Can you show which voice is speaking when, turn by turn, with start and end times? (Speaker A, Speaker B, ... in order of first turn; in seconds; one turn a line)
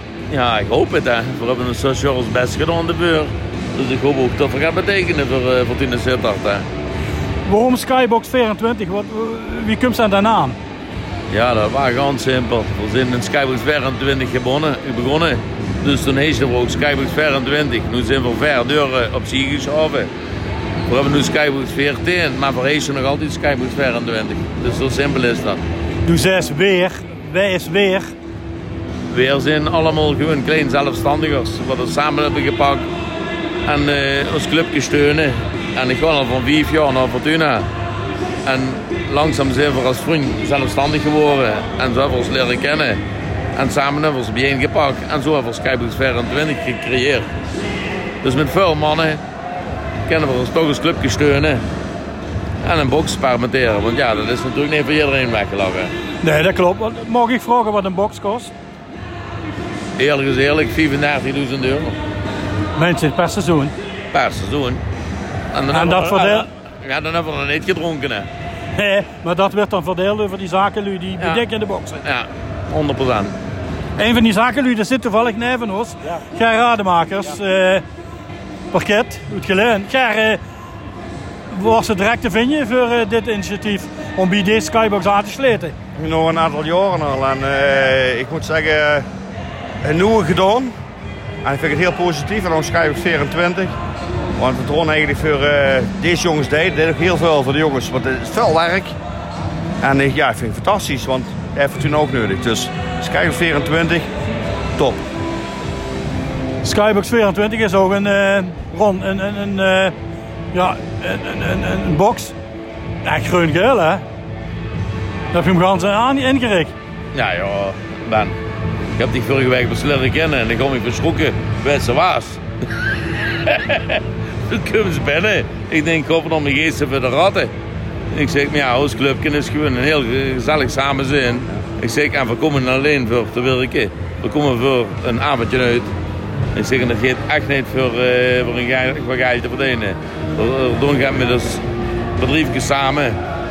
Speaker A: 0.3-6.7
Speaker B: 7.5-10.6
Speaker A: 11.3-20.1
Speaker A: 20.9-25.6
Speaker B: 26.0-28.1
Speaker A: 29.1-32.9
Speaker A: 33.6-37.7
Speaker A: 38.5-43.0
Speaker A: 43.5-47.3
Speaker A: 48.2-49.2
Speaker A: 50.1-51.6
Speaker A: 52.6-55.9
Speaker B: 56.2-58.5
Speaker A: 60.0-62.0
Speaker B: 62.8-63.7
Speaker A: 64.1-64.8
Speaker A: 65.5-68.3
Speaker B: 65.7-66.5
Speaker B: 68.8-72.0
Speaker A: 71.2-71.4
Speaker A: 72.0-73.3
Speaker B: 74.0-77.8
Speaker B: 78.7-80.4
Speaker B: 81.5-85.8
Speaker C: 86.0-89.1
Speaker C: 89.8-90.8
Speaker C: 91.4-93.7
Speaker C: 94.4-98.9
Speaker C: 99.8-104.1
Speaker B: 106.6-109.9
Speaker B: 110.5-112.4
Speaker B: 113.0-114.0
Speaker B: 115.3-116.7
Speaker A: 117.1-118.4
Speaker A: 119.0-122.4
Speaker A: 123.4-127.5
Speaker A: 128.1-135.9
Speaker A: 136.6-141.6
Speaker A: 142.2-143.2